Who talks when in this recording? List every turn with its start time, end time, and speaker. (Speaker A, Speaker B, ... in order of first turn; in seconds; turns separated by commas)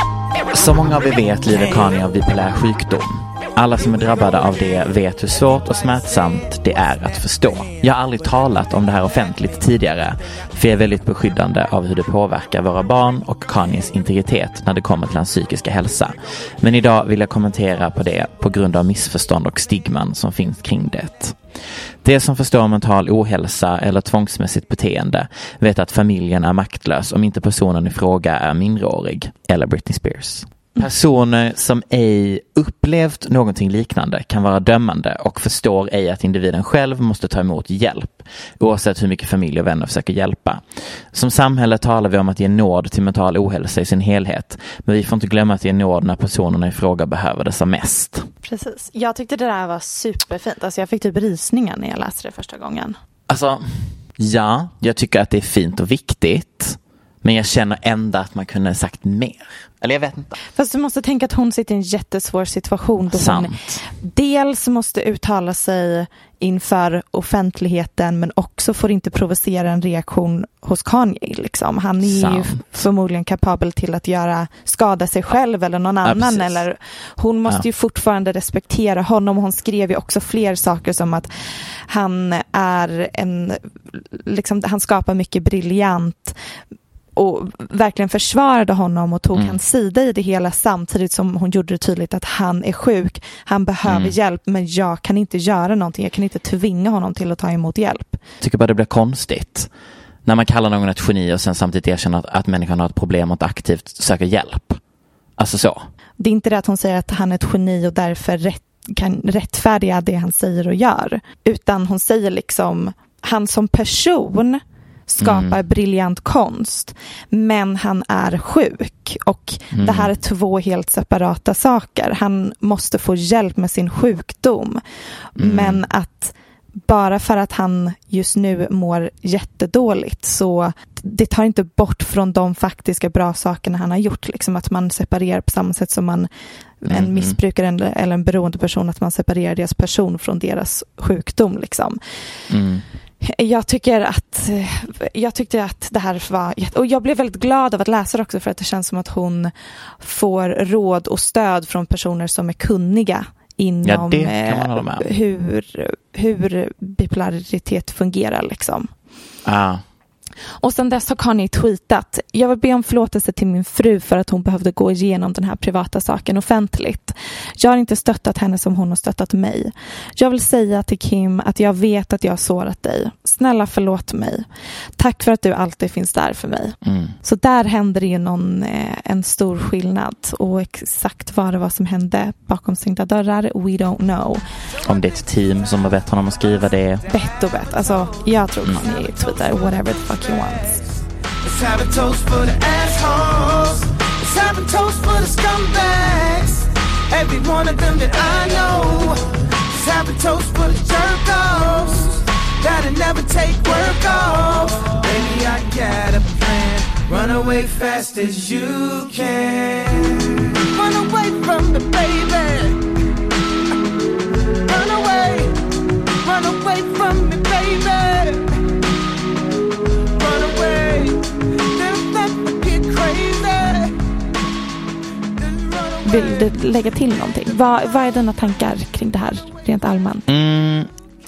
Speaker A: 0.5-21.4, Speaker B: 1.5-1.9, Speaker B: 3.7-9.6, Speaker A: 22.0-48.3, Speaker C: 48.4-53.0, Speaker A: 53.3-60.3, Speaker C: 60.5-81.3, Speaker A: 63.1-63.8, Speaker A: 72.0-72.6, Speaker A: 76.0-76.6, Speaker C: 81.9-86.4, Speaker C: 87.2-98.2, Speaker A: 93.8-94.2, Speaker A: 98.4-99.7, Speaker A: 100.2-104.8, Speaker A: 105.4-105.9, Speaker C: 106.2-124.8, Speaker A: 115.2-115.6, Speaker A: 119.7-120.1, Speaker C: 125.3-136.3, Speaker A: 125.4-125.8, Speaker C: 136.8-142.0, Speaker A: 136.9-137.4, Speaker A: 142.5-142.8, Speaker C: 143.2-158.9, Speaker A: 153.8-155.1, Speaker A: 159.4-159.8, Speaker C: 160.6-174.4, Speaker C: 175.0-184.4, Speaker A: 176.8-177.1, Speaker A: 184.8-187.0, Speaker C: 187.1-190.8, Speaker B: 191.4-212.8, Speaker B: 214.7-215.5, Speaker B: 216.2-218.4, Speaker B: 220.2-223.9, Speaker B: 225.4-226.5, Speaker C: 226.0-230.3, Speaker A: 230.3-230.9